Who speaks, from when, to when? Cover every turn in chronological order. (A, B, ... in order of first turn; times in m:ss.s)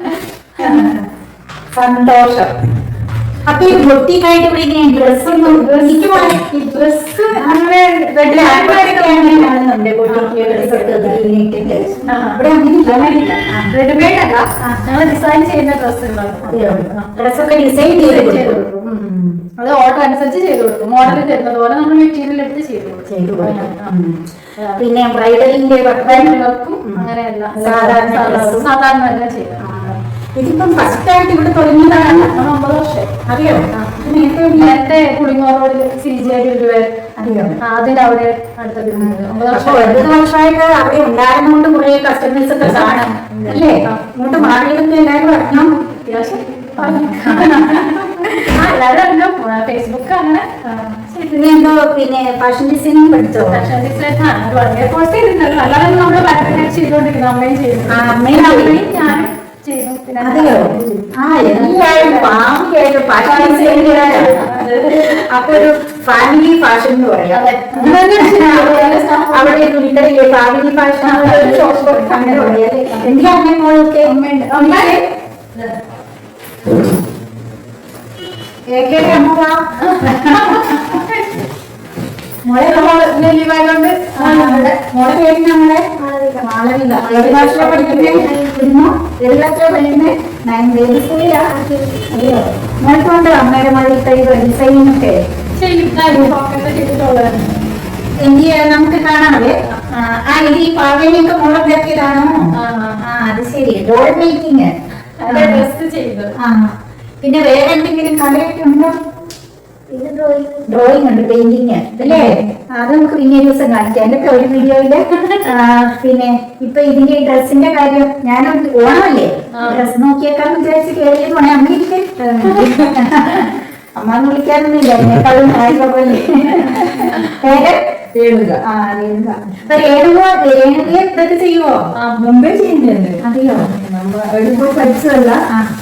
0:00.6-0:01.0 A
0:00.6-0:01.0 B
0:01.7-0:02.5 A
0:03.4-0:06.5 A
0:05.2-0:09.5 B
0:07.3-0:07.6 A
0:08.2-0:13.7 A
0:10.0-0:11.2 B
0:12.0-0:17.1 B
0:16.4-0:19.4 A
0:17.9-0:18.6 B
0:19.6-0:24.0 B
0:23.1-0:24.2 A
0:24.6-0:24.8 B
0:24.8-0:28.7 A
0:26.0-0:29.6 B
0:29.6-0:32.4 A
0:31.9-0:33.1 B
0:33.2-0:34.8 A
0:34.5-0:40.1 B
0:37.2-0:37.6 A
0:38.9-0:45.7 A
0:42.6-0:44.6 B
0:46.0-0:51.5 B
0:46.8-0:48.6 A
0:51.0-0:53.7 A
0:53.5-1:02.5 B
0:57.9-0:59.2 A
1:00.2-1:15.0 A
1:03.2-1:05.2 B
1:07.3-1:09.6 B
1:11.0-1:13.3 B
1:14.0-1:15.0 B
1:18.7-1:20.8 A
1:19.8-1:21.4 B
1:22.4-1:23.2 A
1:22.6-1:24.8 B
1:24.1-1:35.2 A
1:26.0-1:28.3 B
1:35.5-1:37.6 B
1:36.0-1:36.3 A
1:38.2-1:42.4 A
1:42.6-1:43.1 B
1:43.0-1:44.7 A
1:45.2-1:46.3 B
1:45.2-1:45.7 A
1:46.4-1:49.0 A
1:49.9-2:07.8 A
1:52.0-1:52.5 B
1:55.1-1:55.5 B
1:59.5-1:59.9 B
2:02.4-2:02.8 B
2:07.0-2:07.4 B
2:08.1-2:08.6 C
2:08.6-2:11.9 A
2:11.9-2:12.4 B
2:12.2-2:13.2 C
2:13.2-2:13.7 A
2:13.5-2:15.0 B
2:14.3-2:15.4 C